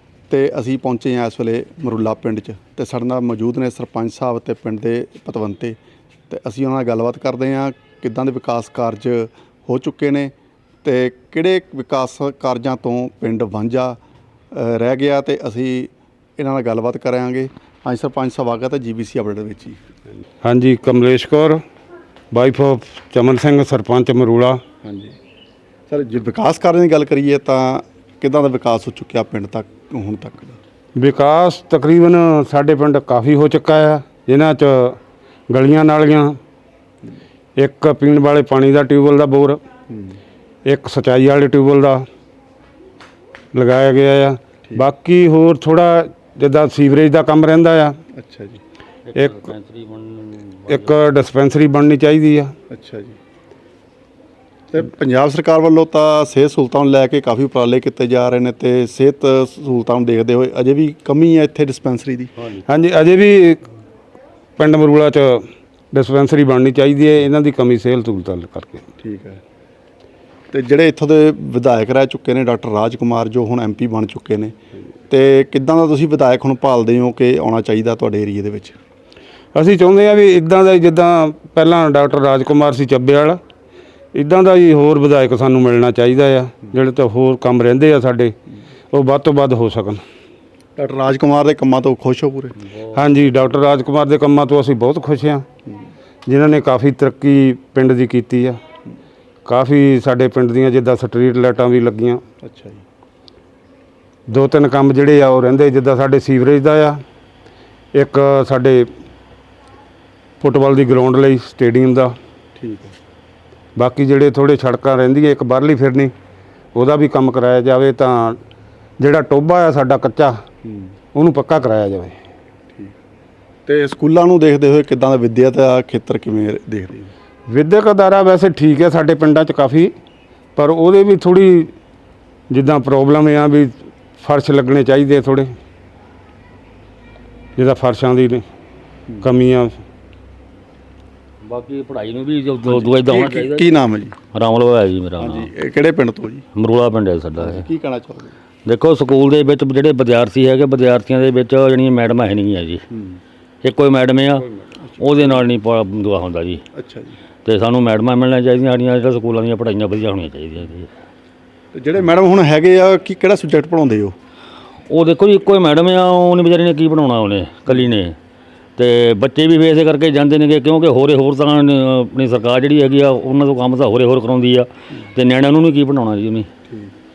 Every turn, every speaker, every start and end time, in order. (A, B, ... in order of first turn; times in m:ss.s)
0:00.3-0:05.8 A
0:06.3-0:10.3 A
0:10.8-0:14.0 A
0:14.5-0:19.8 A
0:20.4-0:21.6 B
0:22.3-0:24.6 B
0:24.8-0:25.2 A
0:25.9-0:30.6 A
0:31.0-0:35.0 B
0:35.5-0:36.3 B
0:37.6-0:39.6 B
0:39.9-0:40.2 A
0:40.6-0:42.0 B
0:43.5-0:48.0 B
0:48.1-0:48.6 A
0:49.1-0:51.0 C
0:50.7-0:52.5 B
0:52.7-0:53.2 A
0:54.7-1:02.3 A
1:02.6-1:03.6 B
1:04.6-1:08.8 B
1:09.0-1:09.4 A
1:10.5-1:14.6 A
1:15.1-1:18.8 A
1:19.5-1:23.4 B
1:24.1-1:28.3 B
1:28.9-1:30.0 B
1:30.8-1:32.5 A
1:32.9-1:35.4 B
1:36.3-1:38.6 B
1:39.4-1:42.2 B
1:42.4-1:42.8 A
1:44.3-1:47.0 B
1:47.9-1:48.9 B
1:50.4-1:52.1 B
1:52.6-1:52.9 A
1:53.8-1:56.1 B
1:56.7-1:58.4 B
1:59.0-2:00.3 B
2:00.6-2:00.9 A
2:01.1-2:02.2 B
2:03.6-2:07.1 A
2:07.5-2:09.9 B
2:10.6-2:11.7 B
2:12.5-2:15.5 B
2:17.6-2:18.4 B
2:19.2-2:19.8 B
2:21.4-2:23.7 C
2:22.6-2:24.2 A
2:24.3-2:25.5 C
2:25.2-2:26.4 A
2:26.5-2:27.6 C
2:27.4-2:28.3 A
2:28.6-2:32.8 C
2:32.9-2:33.2 A
2:33.6-2:36.6 C
2:34.8-2:35.5 A
2:36.7-2:37.2 A
2:37.4-2:40.9 C
2:41.7-2:44.1 A
2:44.9-2:48.1 C
2:48.8-2:56.5 C